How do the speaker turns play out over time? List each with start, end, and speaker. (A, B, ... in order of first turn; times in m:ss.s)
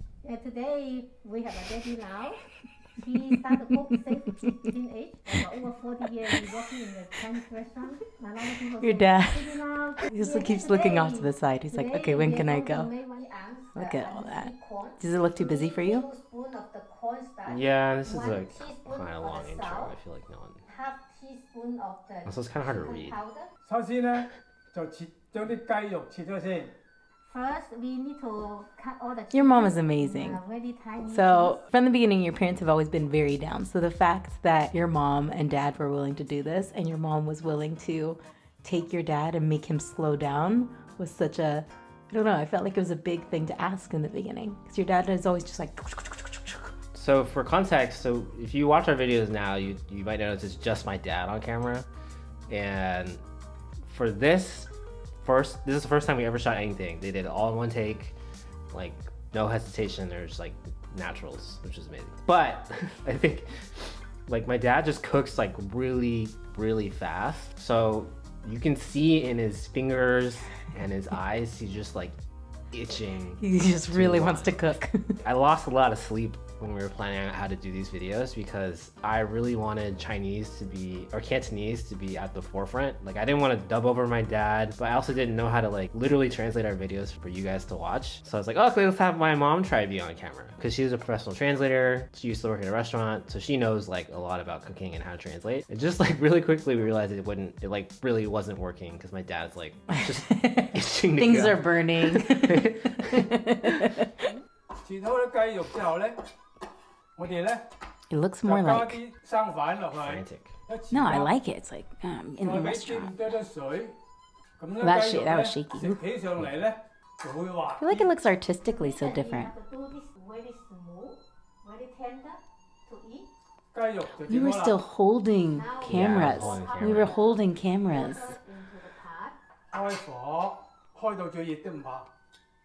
0:00.2-0:02.4 A
0:03.0-0:19.9 A
0:06.2-0:06.7 B
0:08.8-0:09.6 B
0:10.1-0:12.9 B
0:13.7-0:16.1 B
0:17.4-0:20.6 C
0:20.6-0:23.5 A
0:22.2-0:23.2 C
0:23.6-0:26.7 D
0:27.2-0:31.6 A
0:29.3-0:30.4 B
0:31.0-0:46.7 B
0:46.9-0:51.9 C
0:52.5-0:53.2 C
0:53.8-0:54.7 C
0:55.2-0:58.2 C
0:58.7-1:03.7 C
1:04.3-1:12.2 C
1:12.7-1:14.6 C
1:13.4-1:15.2 B
1:15.2-1:43.9 C
1:40.3-1:44.3 B
1:44.8-1:46.2 D
1:47.2-1:47.7 D
1:48.1-1:49.0 B
1:48.4-1:51.3 D
1:49.9-1:50.5 C
1:50.9-1:53.1 B
1:52.4-1:54.0 D
1:54.6-1:58.1 D
1:54.8-1:56.0 B
1:57.8-1:59.5 B
1:58.6-2:03.3 A
2:03.7-2:04.8 D
2:04.2-2:08.3 B
2:05.5-2:09.4 A
2:05.9-2:07.1 C
2:09.7-2:12.1 D